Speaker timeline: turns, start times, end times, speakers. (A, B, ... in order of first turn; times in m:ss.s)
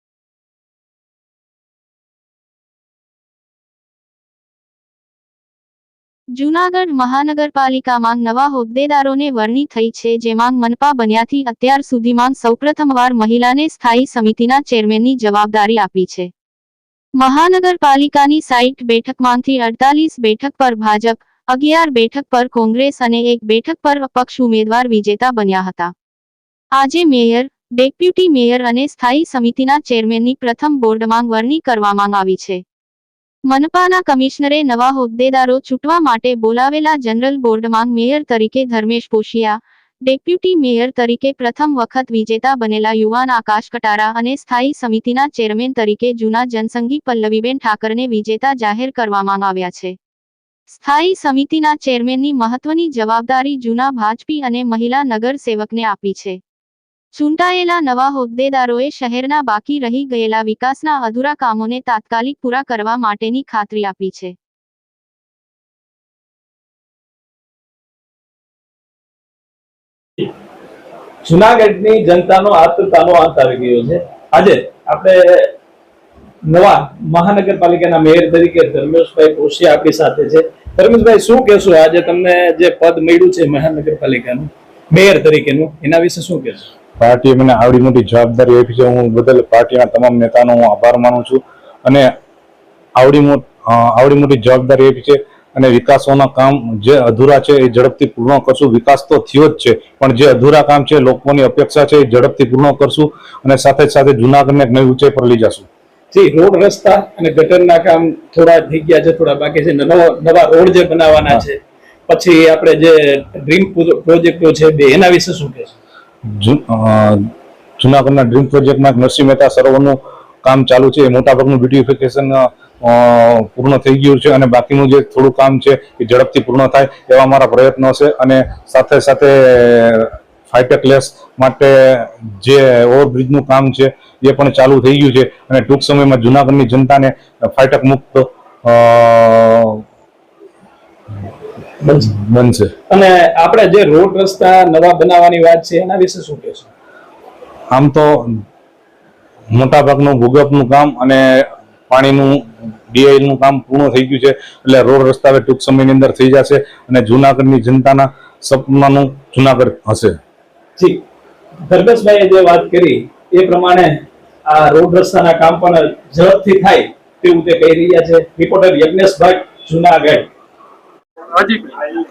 0:06.4-0:16.3 A
0:17.2-0:25.9 A
0:26.8-0:32.6 A
0:33.5-0:39.6 A
0:40.1-0:49.9 A
0:50.7-0:56.4 A
0:57.2-1:04.3 A
1:11.2-1:15.5 B
1:16.5-1:26.7 B
1:27.0-1:32.1 C
1:33.0-1:45.7 C
1:46.1-1:55.7 B
1:56.4-1:57.2 C
1:57.8-2:19.8 C
2:21.8-2:22.1 B
2:22.0-2:22.7 C
2:22.9-2:26.7 B
2:27.7-2:28.1 C
2:29.5-2:32.4 C
2:32.9-2:40.1 C
2:41.7-2:50.3 B